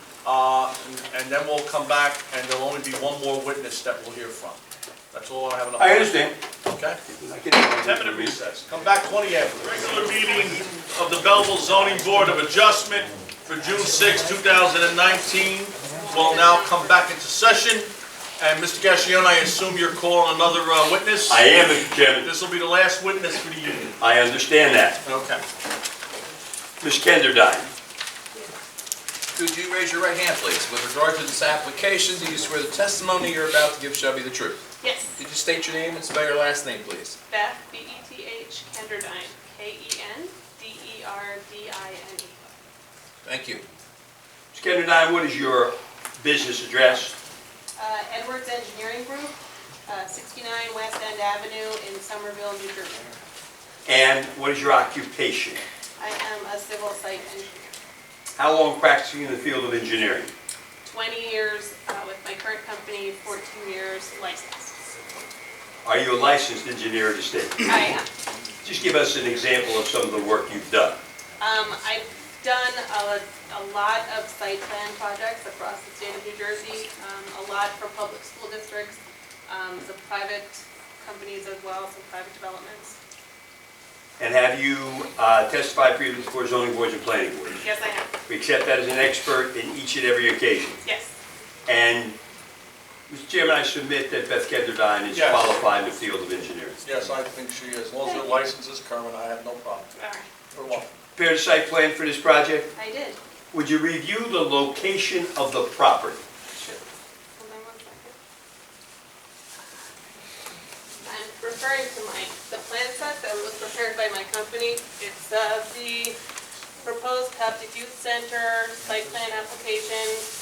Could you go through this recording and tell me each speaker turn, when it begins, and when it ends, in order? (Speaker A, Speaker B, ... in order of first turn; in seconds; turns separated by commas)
Speaker A: 0.2-4.6, Speaker A: 5.1-7.0, Speaker B: 5.8-6.3, Speaker B: 7.1-8.4, Speaker A: 7.8-24.0, Speaker C: 15.9-17.0, Speaker B: 21.3-22.3, Speaker B: 24.0-25.0, Speaker A: 25.0-25.4, Speaker B: 26.8-27.7, Speaker D: 29.3-34.6, Speaker C: 34.8-35.1, Speaker D: 35.1-37.2, Speaker C: 37.3-42.4, Speaker D: 43.2-43.6, Speaker B: 44.5-47.1, Speaker C: 47.8-53.2, Speaker B: 53.9-55.6, Speaker C: 56.0-57.8, Speaker B: 58.4-60.3, Speaker C: 60.8-64.7, Speaker B: 65.8-67.8, Speaker C: 67.6-68.1, Speaker B: 68.6-71.0, Speaker C: 71.4-83.0, Speaker B: 84.2-87.6, Speaker C: 87.6-88.1, Speaker B: 88.3-90.8, Speaker C: 90.8-91.1, Speaker B: 91.7-92.2, Speaker B: 93.1-96.8, Speaker A: 95.1-95.6, Speaker A: 96.8-99.9, Speaker C: 98.0-98.4, Speaker C: 99.9-100.3, Speaker A: 100.5-100.9, Speaker B: 101.1-102.7, Speaker C: 102.7-103.2, Speaker B: 103.5-106.2, Speaker C: 106.5-108.1, Speaker C: 111.0-116.2, Speaker C: 116.8-120.3